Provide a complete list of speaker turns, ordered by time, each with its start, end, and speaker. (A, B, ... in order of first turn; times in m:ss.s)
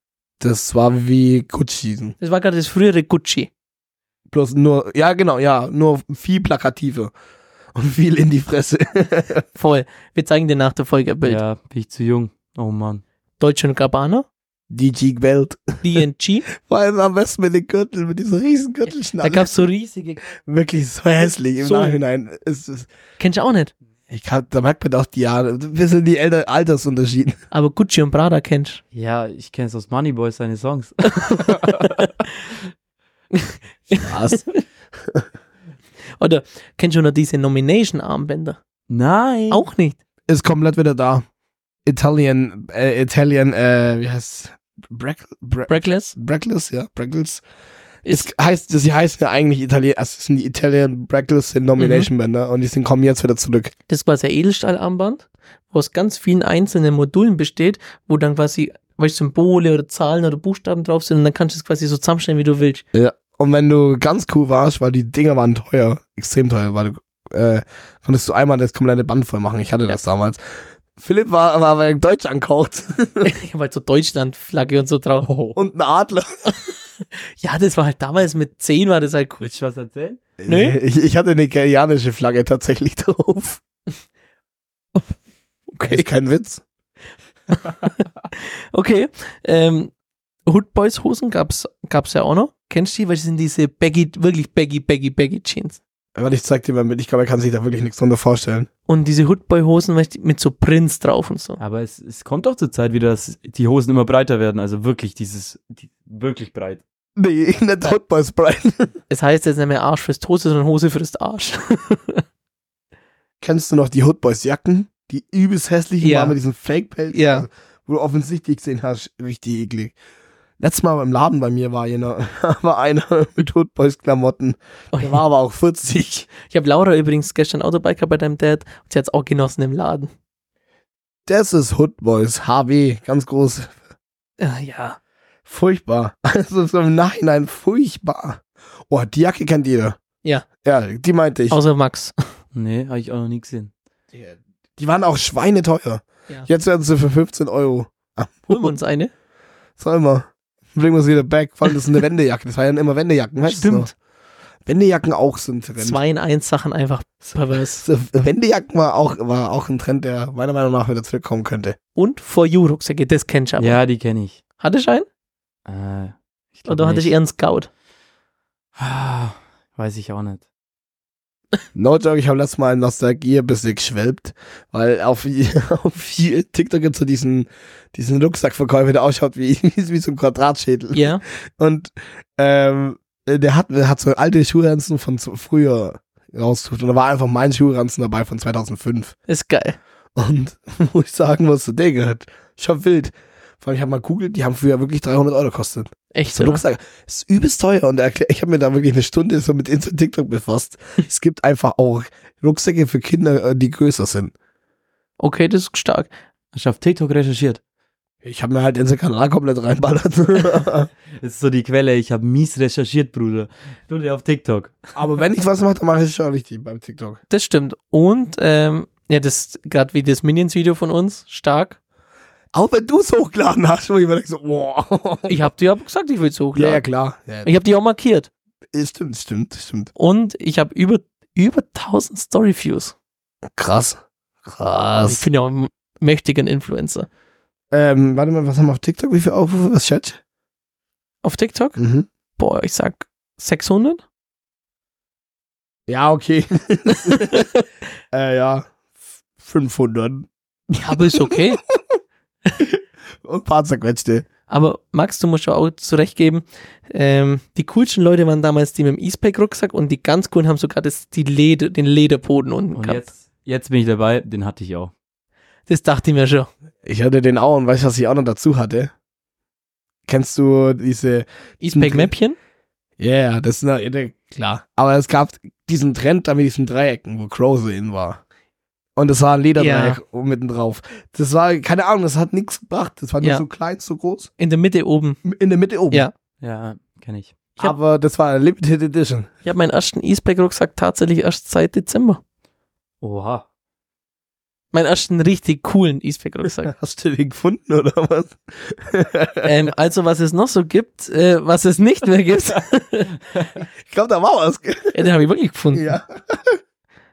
0:00.4-0:02.2 A
0:02.2-0:03.5 B
0:04.3-0:07.1 A
0:07.7-0:09.4 A
0:09.6-0:11.4 B
0:11.2-0:13.0 C
0:13.4-0:14.3 B
0:14.7-0:15.8 A
0:15.8-0:16.5 B
0:16.6-0:19.5 A
0:19.2-0:20.2 B
0:20.4-0:22.9 A
0:21.6-0:22.0 B
0:23.2-0:23.7 B
0:24.1-0:27.4 A
0:27.5-0:28.8 B
0:28.9-0:31.8 C
0:31.2-0:32.1 B
0:33.3-0:34.6 B
0:34.0-0:34.4 A
0:36.2-0:38.6 B
0:38.9-0:39.6 C
0:39.5-0:40.0 B
0:40.3-0:41.2 A
0:41.9-0:47.4 A
0:45.7-0:46.1 B
0:48.1-0:53.7 A
0:51.8-0:52.1 B
0:53.9-1:02.8 B
1:02.9-1:10.4 A
1:11.0-1:13.3 A
1:13.2-1:15.3 B
1:15.3-1:16.5 A
1:16.5-1:19.4 B
1:19.4-1:20.2 C
1:20.4-1:23.6 A
1:20.5-1:20.8 B
1:25.7-1:26.1 B
1:25.8-1:26.6 A
1:27.5-1:29.9 B
1:30.5-1:35.8 B
1:36.2-1:38.7 A
1:38.9-1:41.6 B
1:41.6-1:46.8 C
1:47.2-1:48.9 A
1:49.1-1:52.2 B
1:53.4-2:00.0 A
1:56.0-1:56.4 B
1:57.1-1:57.5 B
2:00.6-2:06.3 A
2:04.9-2:05.2 B
2:06.4-2:10.1 B
2:11.3-2:13.8 A
2:14.4-2:15.0 B
2:15.5-2:20.0 A
2:20.6-2:21.6 A
2:21.5-2:22.2 B
2:22.5-2:23.7 C
2:24.1-2:28.8 A
2:28.5-2:29.1 B
2:29.8-2:33.9 A
2:33.4-2:33.9 B
2:34.7-2:36.0 A
2:35.8-2:37.8 B
2:37.8-2:41.8 A
2:42.0-2:43.8 B
2:43.6-2:44.4 C
2:44.6-2:45.1 B
2:45.7-2:47.1 C
2:46.7-2:47.7 B
2:48.8-2:50.4 C
2:51.8-3:09.2 A
3:00.9-3:01.2 B
3:09.3-3:09.8 B
3:10.2-3:24.3 A
3:16.1-3:16.6 B
3:25.2-3:26.1 B
3:26.5-3:27.6 C
3:28.2-3:30.9 A
3:31.2-3:34.8 C
3:35.0-3:37.2 A
3:37.3-3:41.8 B
3:42.5-3:45.5 A
3:45.3-3:46.8 B
3:46.6-3:47.5 A
3:47.4-3:48.3 B
3:48.7-3:49.9 A
3:50.0-3:53.0 B
3:53.5-3:55.3 A
3:55.0-3:57.1 B
3:57.7-4:00.2 A
4:01.2-4:01.8 B
4:01.8-4:02.1 A
4:02.4-4:04.0 B
4:05.9-4:07.5 A
4:07.1-4:07.4 B
4:08.1-4:08.7 A
4:09.4-4:11.8 A
4:10.8-4:11.6 B
4:12.6-4:14.3 A
4:14.5-4:23.1 B
4:22.7-4:24.9 C
4:25.7-4:26.5 B
4:26.8-4:28.9 A
4:30.1-4:32.1 A
4:31.6-4:32.4 B
4:33.0-4:38.2 A
4:39.0-4:44.3 A
4:39.6-4:40.0 B
4:44.4-4:45.2 B
4:45.2-4:46.1 A
4:46.4-4:47.4 C
4:47.6-4:49.3 A
4:49.4-4:52.2 B
4:53.0-4:53.4 C
4:54.7-4:56.7 B
4:56.6-4:59.5 A
4:59.4-5:03.1 B
5:03.8-5:05.1 A
5:04.9-5:05.9 B
5:05.7-5:06.6 A